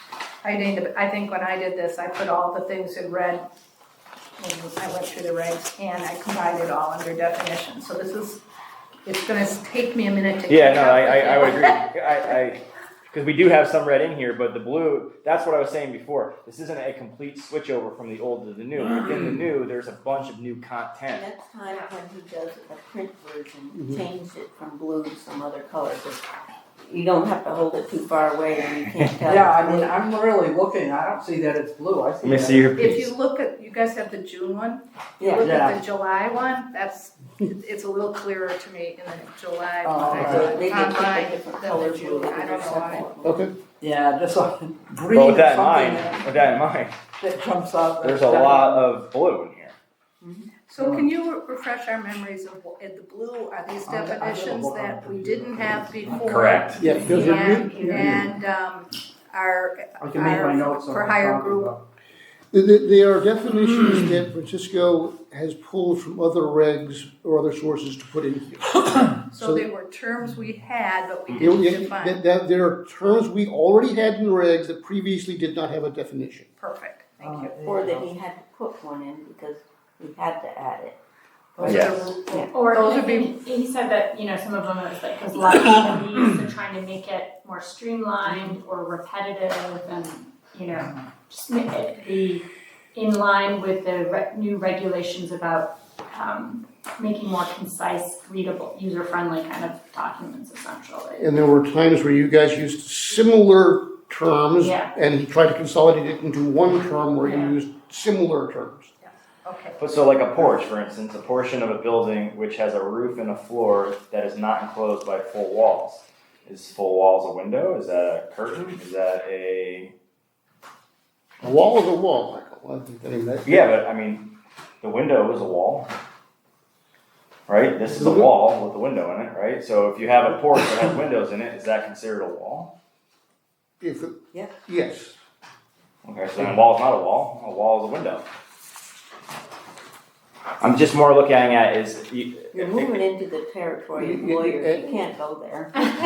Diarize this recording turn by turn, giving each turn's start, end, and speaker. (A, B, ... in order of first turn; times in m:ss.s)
0:00.4-0:03.5 A
0:04.4-0:08.4 A
0:09.0-0:11.9 A
0:10.5-0:21.3 B
0:21.1-0:26.2 C
0:23.8-0:24.0 D
0:26.8-0:30.0 C
0:28.9-0:29.1 B
0:29.3-0:32.7 E
0:32.2-0:33.1 B
0:32.8-0:43.1 A
0:35.2-0:35.6 C
0:35.4-0:35.8 E
0:39.8-0:40.6 E
0:40.1-0:43.5 C
0:43.2-0:43.5 D
0:43.8-0:46.4 E
0:45.1-0:47.0 B
0:47.2-0:48.8 E
0:48.0-0:49.8 B
0:50.6-1:01.8 A
0:50.8-0:51.1 E
0:53.9-0:56.5 E
0:56.2-0:56.9 B
0:56.8-0:58.2 D
0:56.9-0:58.2 F
1:00.0-1:01.8 E
1:02.5-1:09.7 D
1:09.3-1:12.2 A
1:11.4-1:16.5 D
1:16.6-1:17.6 A
1:17.2-1:18.1 E
1:17.6-1:21.0 C
1:21.6-1:23.4 A
1:21.6-1:21.9 E
1:21.6-1:22.1 B
1:22.5-1:41.3 F
1:41.2-1:48.9 D
1:44.6-1:44.9 F
1:49.0-1:49.8 A
1:49.8-1:59.9 B
2:01.4-2:03.7 D
2:03.5-2:05.9 B
2:07.5-2:12.7 B
2:07.9-2:08.3 D
2:13.8-2:15.2 D
2:16.0-2:18.3 B
2:20.6-2:23.0 B
2:22.5-2:25.7 C
2:24.0-2:25.0 D